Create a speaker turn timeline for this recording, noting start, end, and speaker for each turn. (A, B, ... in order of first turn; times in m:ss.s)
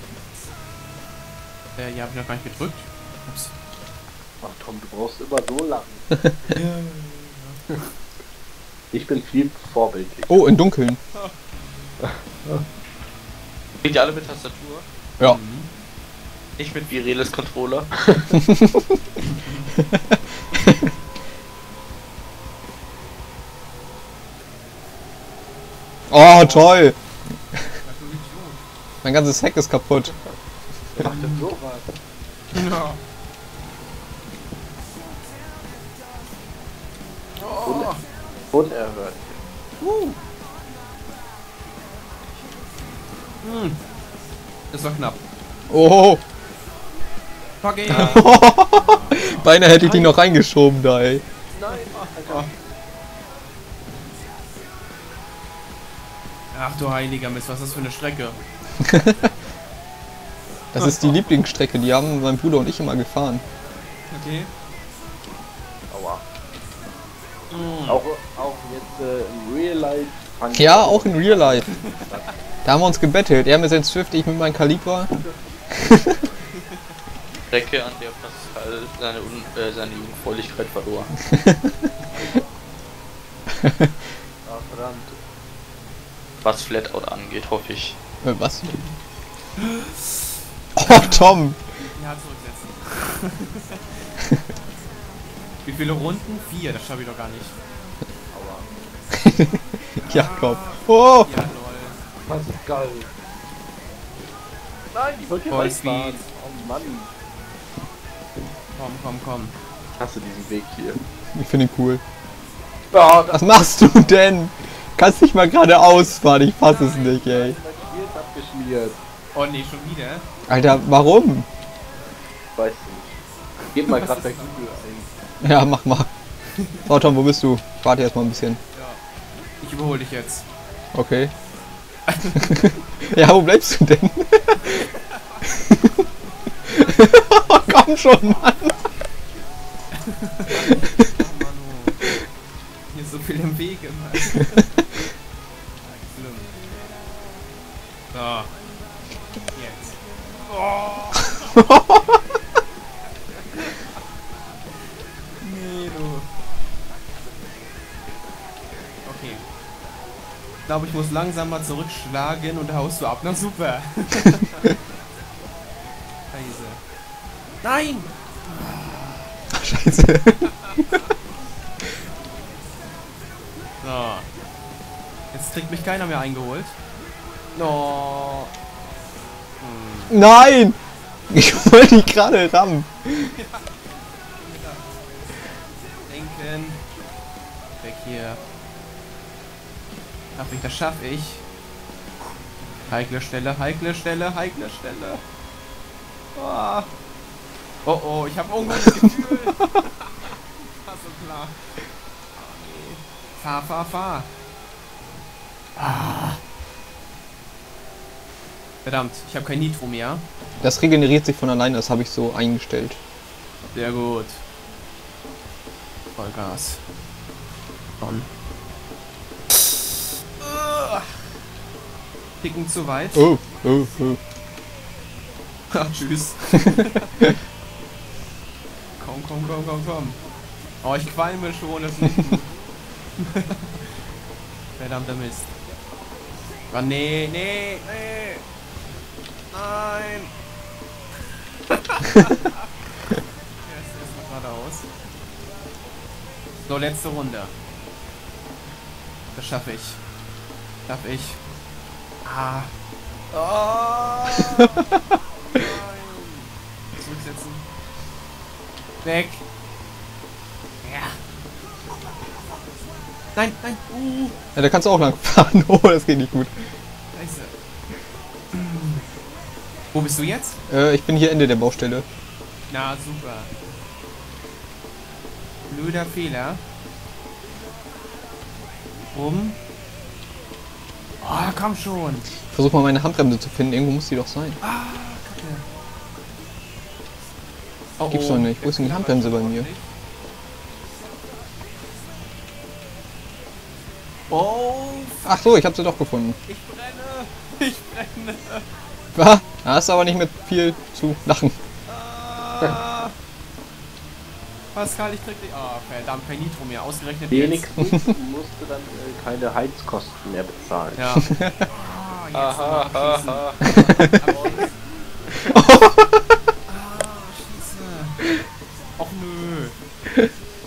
0:01.8-0:03.5 A
0:04.4-0:06.6 B
0:06.5-0:07.6 A
0:08.9-0:10.5 B
0:10.3-0:11.0 C
0:12.0-0:12.6 B
0:13.8-0:14.9 D
0:15.2-0:15.7 A
0:16.6-0:17.9 D
0:18.0-0:18.4 B
0:18.3-0:19.0 C
0:19.2-0:19.7 A
0:20.5-0:20.9 C
0:26.1-0:27.0 C
0:26.4-0:26.7 A
0:27.8-0:28.6 A
0:29.0-0:30.1 C
0:31.0-0:31.9 B
0:31.0-0:31.5 A
0:32.5-0:33.0 A
0:37.4-0:38.0 A
0:37.6-0:38.0 B
0:38.5-0:39.4 B
0:39.8-0:40.2 A
0:43.4-0:43.8 A
0:44.7-0:45.2 A
0:45.7-0:46.2 C
0:47.6-0:50.2 A
0:47.9-0:51.2 C
0:47.9-0:48.2 B
0:51.5-0:52.6 B
0:51.9-0:52.5 A
0:56.5-0:58.4 A
0:58.8-0:59.3 C
1:00.7-1:03.4 C
1:00.8-1:01.2 A
1:04.1-1:04.5 A
1:05.9-1:06.2 B
1:07.5-1:08.0 A
1:07.9-1:12.3 B
1:10.5-1:11.7 C
1:11.7-1:12.3 A
1:12.6-1:15.1 C
1:15.8-1:16.2 C
1:17.5-1:21.2 D
1:21.3-1:21.9 C
1:22.1-1:22.6 B
1:23.6-1:23.9 C
1:24.4-1:25.2 B
1:26.4-1:28.0 D
1:28.2-1:28.8 C
1:29.6-1:30.2 A
1:30.8-1:31.6 C
1:30.9-1:31.3 A
1:31.8-1:34.1 A
1:35.6-1:37.6 A
1:38.3-1:38.7 B
1:39.1-1:41.3 C
1:40.0-1:42.0 A
1:42.3-1:43.1 B
1:44.9-1:47.1 B
1:45.5-1:46.3 A
1:48.8-1:49.6 A
1:50.0-1:51.0 B
1:51.3-1:52.0 C
1:52.9-1:54.0 B
1:53.3-1:57.6 C
1:56.6-1:57.2 A
1:57.1-1:59.0 B
1:59.3-2:00.2 A
2:00.5-2:01.5 C
2:02.6-2:03.2 B
2:03.7-2:05.1 B
2:03.9-2:05.1 A
2:05.4-2:06.1 C
2:06.5-2:06.8 A
2:06.9-2:08.6 C
2:08.7-2:09.0 A
2:09.6-2:10.4 A
2:10.9-2:11.3 C
2:12.1-2:12.5 A
2:12.4-2:14.8 C
2:15.1-2:15.4 A
2:16.7-2:18.8 C
2:19.9-2:22.0 A
2:22.9-2:24.7 A
2:26.1-2:26.5 A
2:28.1-2:28.5 A
2:29.6-2:31.5 A
2:31.6-2:32.0 C
2:33.4-2:33.8 A
2:35.4-2:36.3 A
2:39.0-2:39.4 A
2:40.7-2:44.7 A
2:46.3-2:46.8 A
2:47.6-2:49.3 A
2:49.5-2:50.8 C
2:50.4-2:51.0 A
2:53.8-2:54.3 A
2:55.3-2:56.8 A
2:57.6-2:58.5 A
2:59.6-3:00.2 A
3:00.1-3:00.8 C
3:01.3-3:03.3 C
3:03.4-3:03.7 A
3:04.4-3:05.3 A
3:06.0-3:06.8 A
3:07.8-3:08.4 A
3:10.4-3:11.4 A
3:12.9-3:15.2 A
3:16.4-3:16.9 A
3:17.8-3:21.6 A
3:18.7-3:19.1 C
3:22.4-3:24.3 A
3:25.8-3:26.4 A
3:28.8-3:30.2 A
3:30.6-3:33.0 C
3:33.7-3:34.4 A
3:36.2-3:36.8 A
3:38.0-3:38.3 A
3:40.4-3:41.2 A
3:42.4-3:43.3 A
3:43.2-3:44.2 C
3:45.7-3:47.1 A
3:49.0-3:50.2 A
3:50.8-3:52.5 A
3:53.2-3:54.0 A
3:54.8-3:55.5 A
3:56.7-3:58.4 A
3:59.5-4:00.3 A
4:01.7-4:02.7 A
4:03.6-4:04.9 A
4:06.7-4:07.5 A
4:09.4-4:10.0 A
4:10.9-4:11.4 A
4:12.2-4:12.7 A
4:13.3-4:14.8 A
4:15.5-4:17.7 A
4:19.0-4:19.4 A
4:20.8-4:21.2 A
4:23.3-4:24.4 A
4:24.6-4:26.6 C
4:27.1-4:27.5 A
4:28.5-4:29.1 A
4:29.9-4:30.6 A
4:30.7-4:32.0 C
4:32.7-4:33.5 A
4:35.7-4:36.6 A
4:39.1-4:39.6 A
4:41.2-4:42.3 A
4:42.5-4:44.6 C
4:44.6-4:45.6 A
4:48.0-4:49.9 A
4:48.1-4:49.7 C
4:54.3-4:55.3 A
4:55.2-4:56.4 C
4:56.5-4:58.6 A
4:59.2-5:01.6 C
5:01.9-5:03.1 A
5:04.7-5:07.7 A
5:07.3-5:11.0 B
5:07.8-5:08.1 C
5:11.0-5:14.8 A
5:11.3-5:11.5 C
5:12.4-5:13.8 D
5:13.6-5:14.6 B
5:15.4-5:16.2 C
5:16.7-5:18.3 A
5:19.0-5:19.8 A